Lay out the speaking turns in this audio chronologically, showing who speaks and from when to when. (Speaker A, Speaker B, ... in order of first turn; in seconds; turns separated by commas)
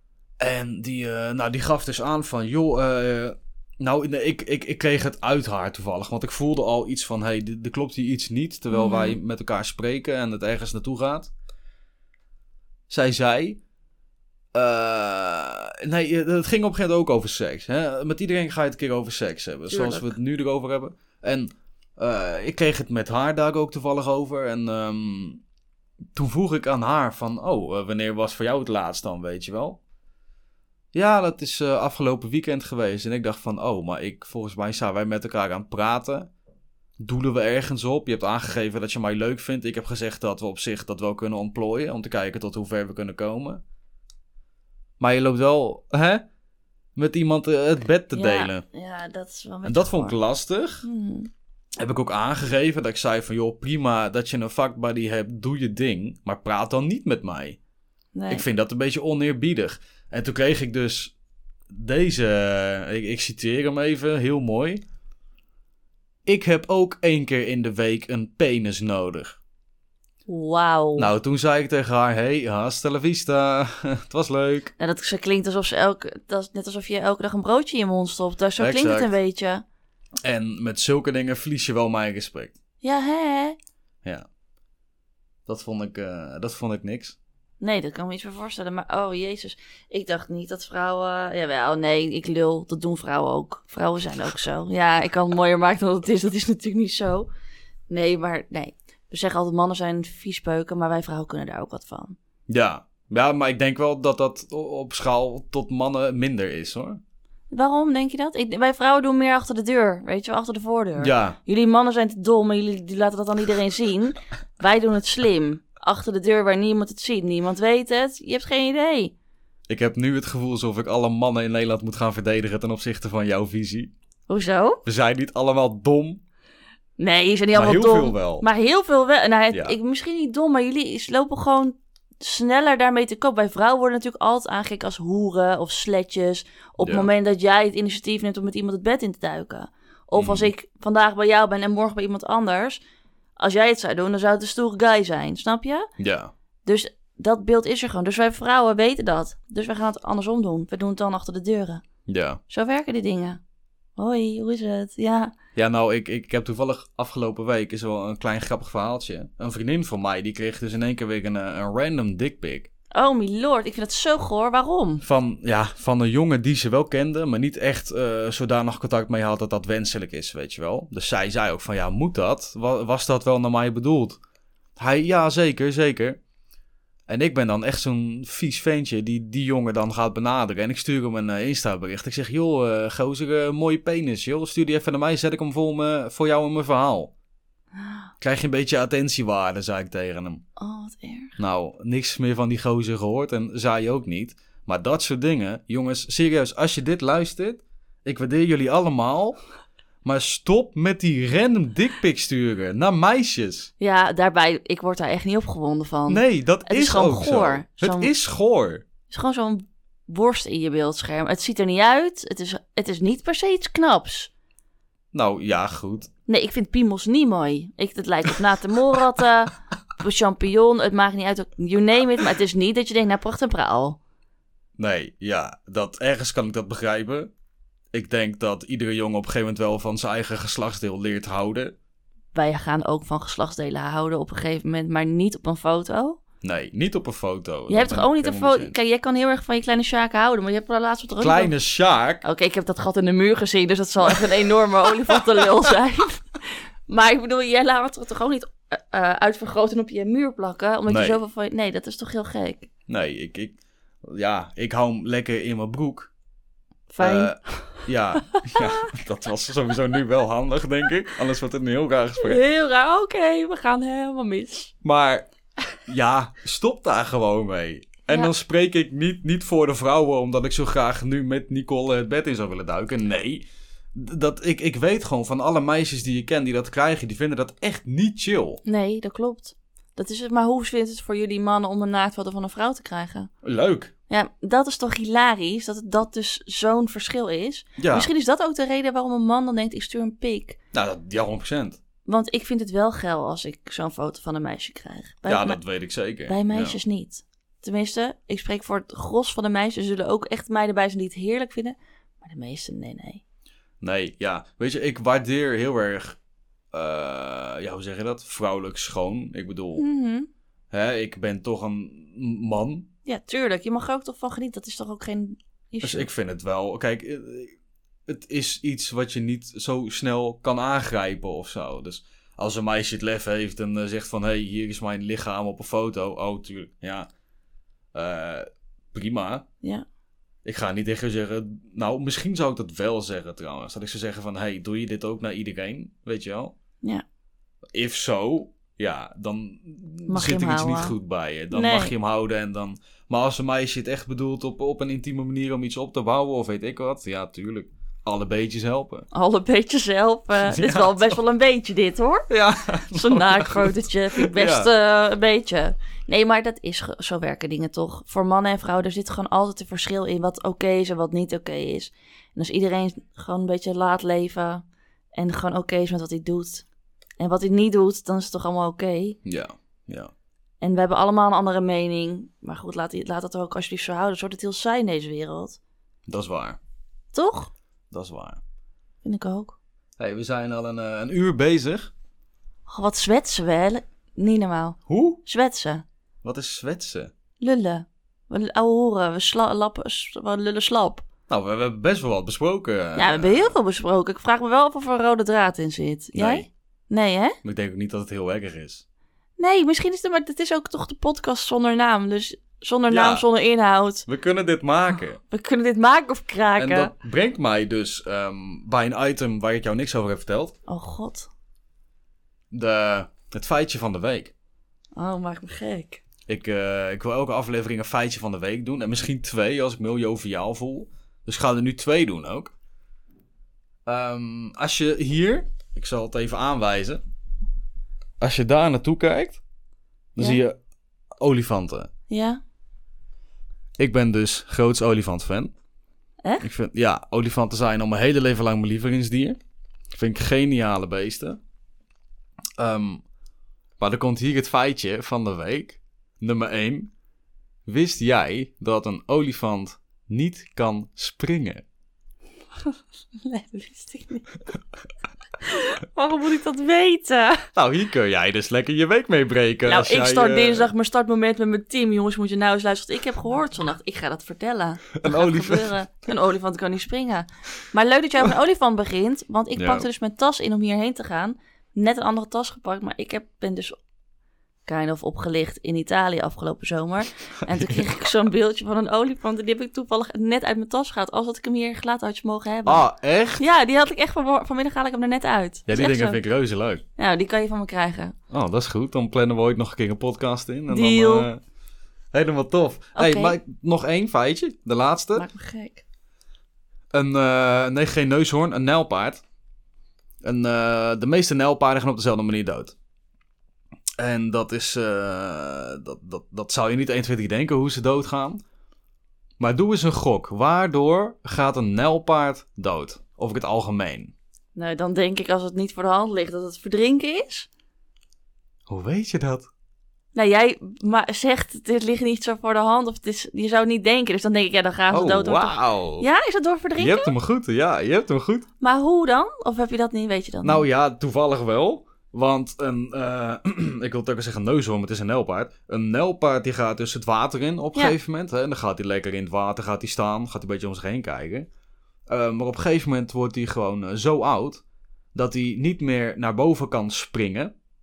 Speaker A: 0.4-11.3, Speaker B: 8.7-9.2, Speaker A: 12.9-13.6, Speaker A: 14.5-25.4, Speaker B: 19.7-20.1, Speaker A: 26.1-29.8, Speaker A: 30.9-36.3, Speaker A: 37.0-43.6, Speaker A: 45.0-46.2, Speaker A: 47.0-48.6, Speaker B: 48.1-50.2, Speaker A: 49.6-50.9, Speaker B: 50.8-51.3, Speaker A: 51.8-57.6, Speaker B: 58.1-58.4, Speaker A: 58.3-61.1, Speaker A: 61.7-64.8, Speaker A: 66.2-69.4, Speaker B: 70.3-71.1, Speaker A: 71.0-74.7, Speaker B: 74.8-79.6, Speaker A: 78.6-79.1, Speaker A: 80.2-82.5, Speaker B: 82.8-83.6, Speaker A: 85.5-87.2, Speaker B: 87.6-97.3, Speaker B: 97.9-102.2, Speaker A: 102.5-107.0, Speaker B: 107.5-119.1, Speaker A: 111.0-111.4, Speaker A: 119.7-123.9, Speaker B: 124.3-124.8, Speaker A: 124.8-126.2, Speaker B: 127.0-142.8, Speaker A: 127.5-128.5, Speaker A: 129.5-129.8, Speaker A: 136.8-137.1, Speaker A: 140.1-140.5, Speaker B: 143.4-145.9, Speaker A: 146.0-146.3, Speaker B: 146.6-151.8, Speaker A: 152.1-152.4, Speaker B: 152.5-153.4, Speaker B: 153.9-155.3, Speaker A: 155.5-162.7, Speaker B: 162.9-165.0, Speaker A: 165.0-174.2, Speaker A: 174.8-176.2, Speaker A: 177.1-187.1, Speaker B: 187.8-188.1, Speaker A: 188.2-190.4, Speaker B: 190.6-191.3, Speaker A: 191.4-199.4, Speaker A: 200.0-203.7, Speaker B: 203.8-208.1, Speaker A: 206.1-208.8, Speaker B: 209.1-214.3, Speaker A: 215.1-216.1, Speaker B: 216.3-224.0, Speaker A: 224.8-227.3, Speaker A: 227.9-231.7, Speaker B: 232.3-236.2, Speaker A: 236.4-238.7, Speaker B: 237.7-241.5, Speaker A: 241.2-242.2, Speaker B: 242.2-252.7, Speaker A: 245.0-245.4, Speaker A: 250.9-251.2, Speaker A: 252.9-256.1, Speaker B: 256.9-258.9, Speaker A: 257.0-262.4, Speaker B: 262.2-264.7, Speaker A: 264.8-265.3, Speaker A: 265.8-278.6, Speaker B: 278.6-283.3, Speaker A: 283.4-283.9, Speaker B: 284.1-290.6, Speaker A: 287.8-288.1, Speaker A: 290.7-291.8, Speaker B: 292.1-295.6, Speaker A: 295.2-296.8, Speaker B: 296.3-303.2, Speaker A: 303.8-306.2, Speaker A: 306.7-309.8, Speaker B: 309.8-310.3, Speaker A: 310.7-312.9, Speaker B: 313.0-316.1, Speaker A: 315.8-317.6, Speaker A: 318.1-327.1, Speaker A: 327.9-329.4, Speaker A: 330.4-336.5, Speaker A: 337.7-349.1, Speaker B: 340.1-340.9, Speaker B: 341.5-341.9, Speaker B: 349.1-352.3, Speaker A: 350.4-351.2, Speaker A: 352.3-354.7, Speaker B: 352.8-366.6, Speaker B: 367.2-369.2, Speaker A: 369.2-370.1, Speaker B: 370.6-375.6, Speaker A: 376.1-376.6, Speaker B: 377.1-377.5, Speaker A: 377.9-378.4, Speaker B: 379.0-379.6, Speaker A: 380.0-381.9, Speaker B: 382.7-385.8, Speaker A: 384.9-385.2, Speaker A: 386.2-387.1, Speaker B: 387.4-391.0, Speaker A: 391.3-393.5, Speaker B: 392.9-397.4, Speaker A: 396.1-396.5, Speaker A: 397.4-398.8, Speaker B: 399.4-404.1, Speaker A: 402.9-403.2, Speaker A: 404.1-405.2, Speaker B: 405.3-406.9, Speaker A: 406.6-410.6, Speaker B: 410.7-411.3, Speaker A: 412.5-414.3, Speaker B: 414.9-416.0, Speaker A: 416.3-422.5, Speaker A: 423.9-427.0, Speaker A: 428.2-429.4, Speaker A: 430.1-430.6, Speaker A: 431.2-431.9, Speaker B: 432.1-432.4, Speaker A: 433.8-435.5, Speaker A: 436.4-439.4, Speaker A: 439.9-441.4, Speaker A: 442.6-443.0, Speaker A: 443.8-446.9, Speaker A: 447.6-451.6, Speaker B: 452.6-454.3, Speaker B: 455.4-457.5, Speaker A: 457.5-460.7, Speaker B: 459.6-473.8, Speaker A: 464.9-465.8, Speaker A: 469.6-469.9, Speaker B: 474.6-482.9, Speaker A: 477.5-477.8, Speaker A: 482.6-483.4, Speaker B: 483.4-486.2, Speaker A: 485.7-486.8, Speaker B: 487.0-488.1, Speaker A: 488.3-491.4, Speaker B: 490.7-491.3, Speaker A: 492.1-495.3, Speaker B: 492.9-493.3, Speaker B: 495.1-495.8, Speaker A: 496.9-499.2, Speaker A: 500.2-502.7, Speaker A: 504.0-508.4, Speaker A: 509.4-514.1, Speaker B: 514.5-517.5, Speaker A: 518.7-519.5, Speaker B: 520.1-527.1, Speaker A: 524.9-526.1, Speaker A: 526.8-528.5, Speaker B: 528.6-530.6, Speaker A: 530.4-541.5, Speaker A: 542.1-544.6, Speaker A: 545.1-547.5